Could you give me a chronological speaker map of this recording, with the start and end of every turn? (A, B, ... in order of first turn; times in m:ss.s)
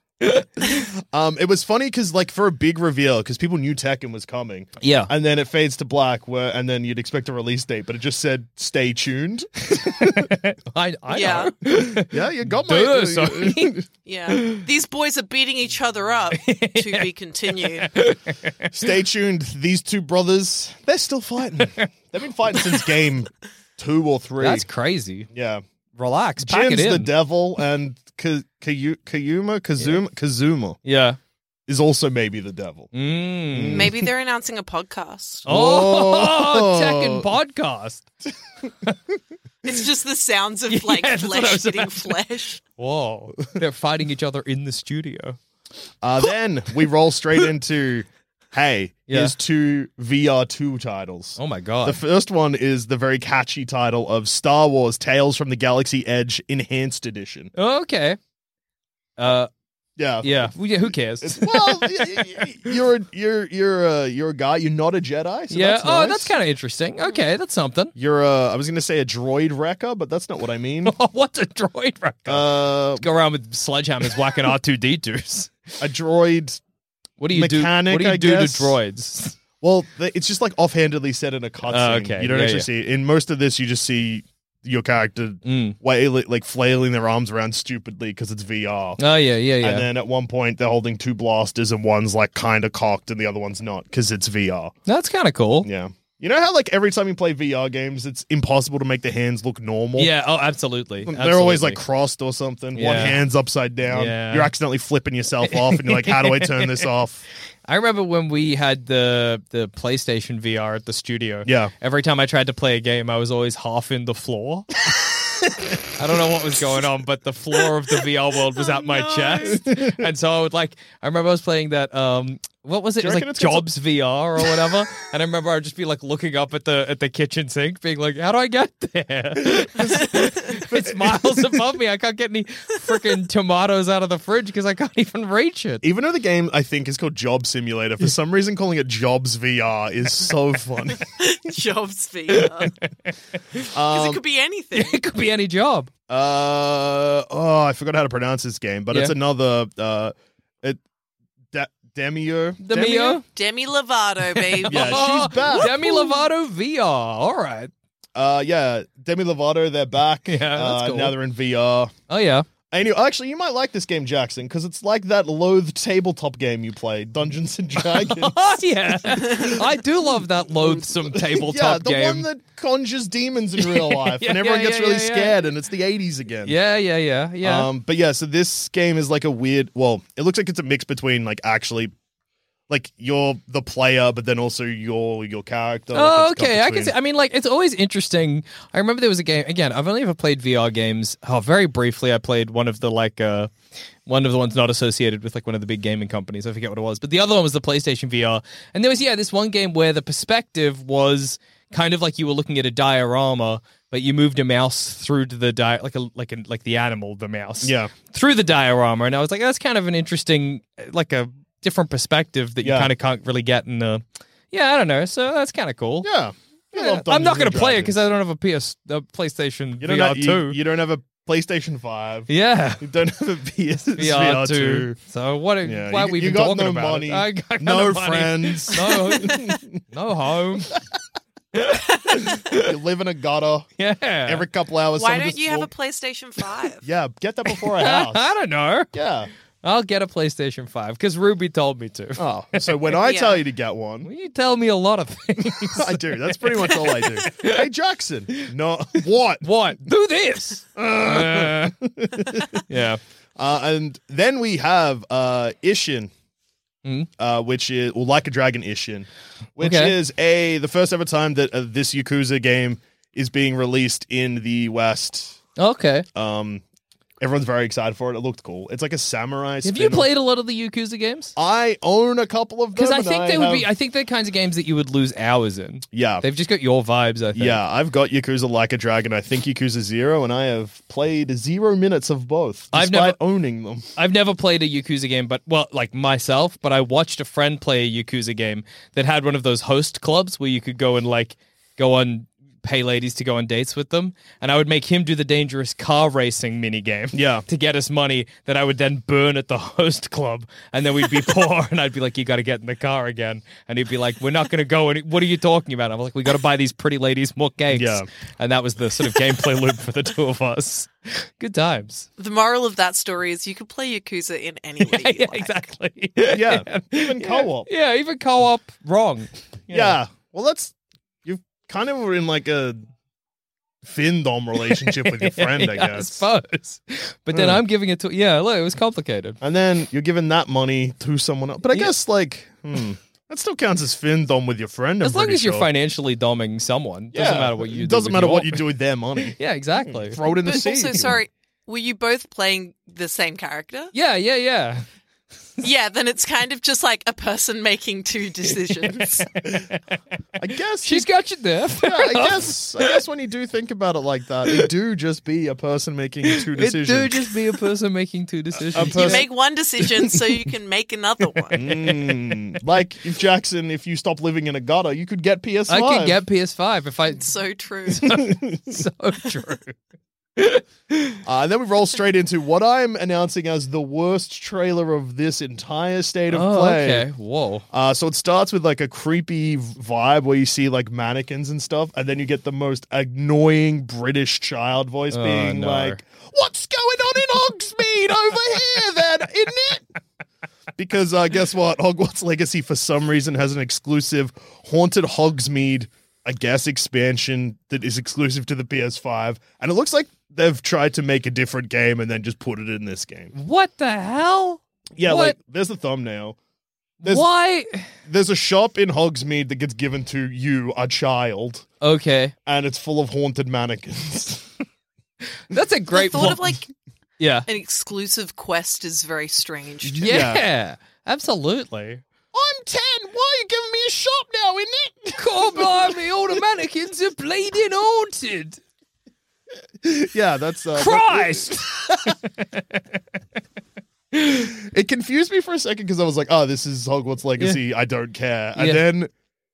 0:00.2-0:00.8 A
0:00.6-0:10.3 B
0:04.8-0:05.1 A
0:09.7-0:13.8 A
0:11.1-0:11.5 C
0:12.0-0:13.9 B
0:14.0-0:17.9 C
0:14.3-0:14.6 A
0:16.4-0:18.7 A
0:18.7-0:24.7 B
0:21.6-0:21.9 A
0:22.6-0:22.9 A
0:24.4-0:25.3 A
0:25.3-0:25.6 B
0:26.0-0:27.1 A
0:26.4-0:30.8 B
0:30.8-0:31.2 A
0:31.7-0:32.9 B
0:32.9-0:33.9 A
0:33.5-0:34.1 B
0:33.7-0:35.5 C
0:35.5-0:37.3 B
0:35.5-0:38.1 A
0:39.6-0:42.6 C
0:40.7-0:42.2 A
0:42.8-0:45.4 A
0:46.0-0:57.5 B
0:49.1-0:49.3 A
0:51.4-0:52.0 A
0:57.6-0:58.2 A
0:59.2-0:59.5 A
1:00.0-1:00.5 B
1:00.2-1:02.5 A
1:01.2-1:06.3 B
1:05.5-1:07.9 A
1:08.0-1:11.0 B
1:10.8-1:15.7 A
1:12.3-1:13.1 B
1:15.8-1:16.6 B
1:17.2-1:19.4 A
1:17.3-1:18.8 B
1:19.6-1:29.0 B
1:21.7-1:22.7 A
1:25.5-1:25.8 A
1:29.0-1:29.8 A
1:29.6-1:34.7 B
1:34.9-1:35.7 A
1:35.6-1:40.1 B
1:40.0-1:41.8 A
1:41.0-1:47.2 B
1:42.8-1:43.2 A
1:43.9-1:44.5 A
1:45.5-1:46.9 A
1:47.7-1:54.7 A
1:51.4-1:51.7 B
1:56.0-2:15.8 A
1:58.6-1:59.6 C
1:59.4-2:00.0 B
2:03.0-2:03.7 B
2:04.4-2:04.7 B
2:09.4-2:11.6 B
2:15.8-2:21.0 B
2:21.1-2:22.8 C
2:22.3-2:22.7 A
2:23.7-2:24.2 B
2:23.9-2:25.0 C
2:24.7-2:25.9 A
2:26.1-2:30.8 B
2:31.5-2:33.2 B
2:32.6-2:33.2 A
2:33.3-2:36.1 C
2:34.4-2:37.7 A
2:34.7-2:35.9 B
2:38.2-2:41.9 B
2:40.3-2:41.2 A
2:42.1-2:42.5 A
2:42.7-2:49.7 B
2:47.8-2:52.3 A
2:50.6-2:56.6 B
2:53.6-2:55.4 A
2:56.5-2:57.7 A
2:57.4-3:01.9 B
3:02.7-3:06.9 B
3:05.9-3:13.5 A
3:14.0-3:36.1 A
3:27.6-3:27.9 B
3:32.6-3:32.9 B
3:36.0-3:38.0 B
3:36.7-3:40.6 A
3:39.8-3:45.0 B
3:42.3-3:42.9 A
3:44.0-3:50.8 A
3:45.6-3:49.8 B
3:51.5-3:52.7 A
3:52.4-3:53.7 B
3:53.8-3:54.5 A
3:54.2-3:55.7 B
3:55.0-3:56.9 C
3:56.8-3:58.3 B
3:57.8-3:58.9 A
3:58.9-3:59.3 B
3:59.6-4:02.8 A
4:02.2-4:04.1 B
4:03.0-4:03.4 C
4:04.0-4:06.7 A
4:05.4-4:09.5 B
4:09.4-4:11.8 A
4:10.8-4:12.6 B
4:12.7-4:13.0 A
4:13.4-4:16.1 B
4:17.2-4:25.4 B
4:19.6-4:20.0 A
4:25.6-4:26.1 A
4:26.2-4:26.6 B
4:27.2-4:30.1 B
4:29.6-4:31.3 A
4:31.4-4:33.7 B
4:32.8-4:37.6 A
4:35.9-4:36.2 B
4:37.3-4:43.9 B
4:42.7-4:43.2 A
4:44.0-5:12.1 A
4:57.1-4:57.4 B
5:07.7-5:08.1 B
5:12.2-5:15.5 C
5:14.8-5:20.0 A
5:16.3-5:17.7 B
5:19.7-5:20.7 B
5:21.2-5:22.8 B
5:23.8-5:26.3 B
5:24.7-5:29.4 A
5:27.3-5:27.6 B
5:29.4-5:35.7 B
5:35.0-5:38.6 A
5:37.1-5:41.2 B
5:39.2-5:40.2 A
5:40.4-5:43.9 C
5:43.9-5:44.8 A
5:45.6-5:49.4 C
5:50.4-5:51.1 B
5:50.8-5:53.0 A
5:51.7-5:57.4 B
5:56.4-5:59.3 A
5:58.7-5:59.3 B
5:58.8-6:01.7 C
6:01.5-6:06.2 B
6:05.7-6:07.3 A
6:07.1-6:08.2 C
6:07.9-6:09.8 A
6:08.0-6:08.8 B
6:10.4-6:11.2 A
6:11.2-6:17.1 B
6:16.3-6:17.6 A
6:17.7-6:29.9 B
6:25.1-6:26.0 A
6:30.8-6:43.3 B
6:43.4-6:45.4 A
6:45.0-6:46.4 B
6:47.0-6:47.9 A
6:48.1-6:51.7 B
6:51.8-6:52.3 A
6:52.5-6:54.5 B
6:55.5-6:56.5 A
6:55.9-6:56.7 C
6:57.2-6:57.5 A
6:57.5-7:00.2 C
7:00.0-7:00.4 B
7:00.0-7:02.0 A
7:02.3-7:06.4 B
7:05.2-7:08.6 A
7:09.8-7:12.2 B
7:10.8-7:12.6 A
7:14.1-7:14.5 A
7:14.3-7:19.1 B
7:18.6-7:18.8 A